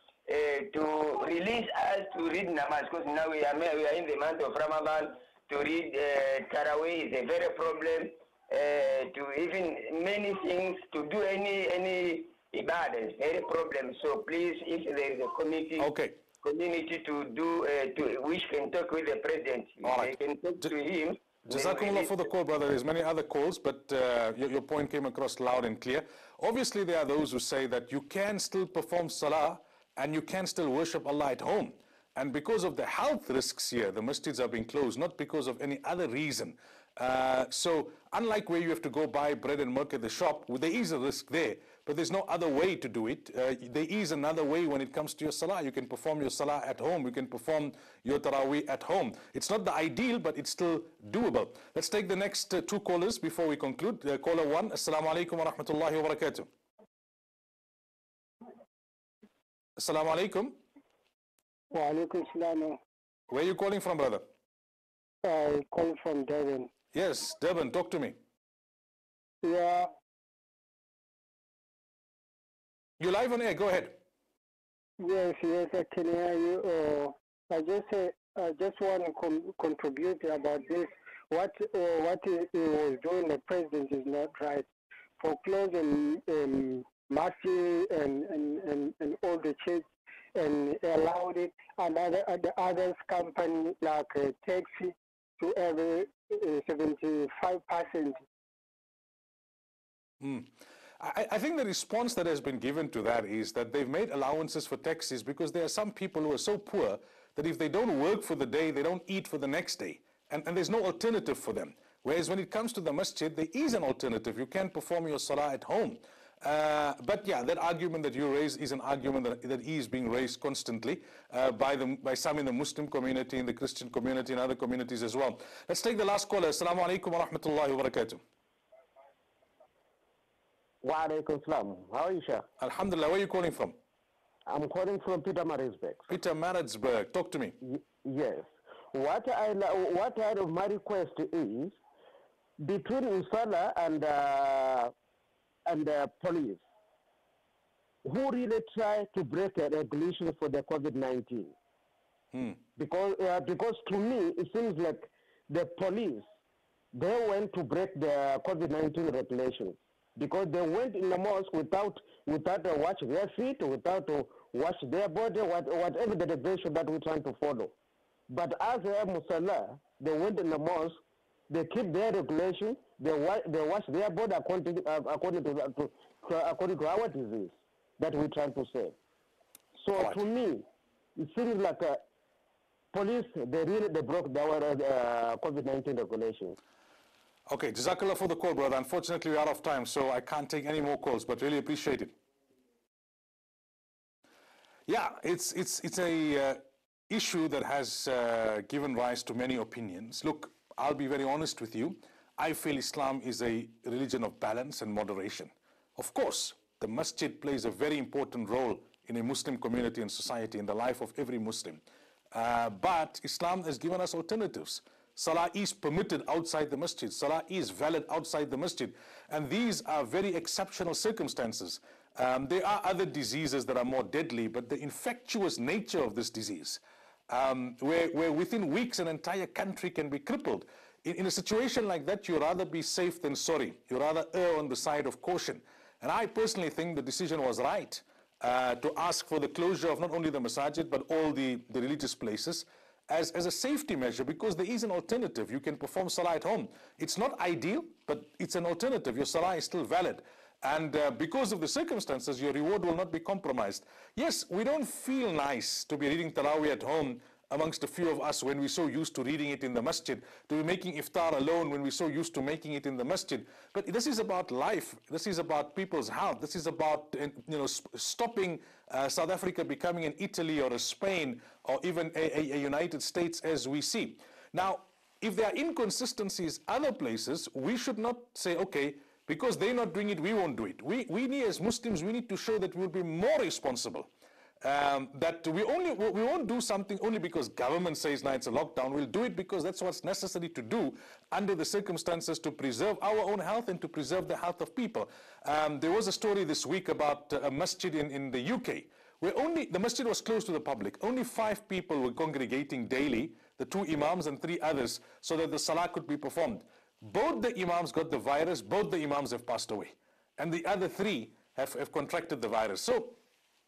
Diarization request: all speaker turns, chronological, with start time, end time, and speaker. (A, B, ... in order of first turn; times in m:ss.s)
0:00.3-0:15.9 A
0:15.8-0:16.2 B
0:16.4-0:22.2 A
0:19.8-0:20.7 B
0:21.4-0:56.5 B
0:59.8-1:00.6 B
1:01.7-1:02.8 C
1:03.3-1:04.2 B
1:05.2-1:06.7 C
1:06.9-1:08.2 B
1:09.4-1:09.9 C
1:13.0-1:14.0 B
1:15.0-1:24.7 C
1:25.2-1:38.2 C
1:40.2-2:08.2 B
2:10.8-2:12.4 D
2:12.6-2:13.8 B
2:14.5-2:16.1 D
2:16.1-2:17.6 B
2:17.6-2:21.8 D
2:22.6-2:24.9 D
2:25.6-2:26.6 D
2:28.0-2:31.5 D
2:32.3-2:32.6 B
2:32.8-2:36.3 D
2:36.9-2:47.7 D
2:48.3-2:58.9 D
2:59.8-3:02.0 D
3:02.9-3:06.6 D
3:07.5-3:12.1 B
3:14.9-4:44.1 B
4:44.6-5:13.2 B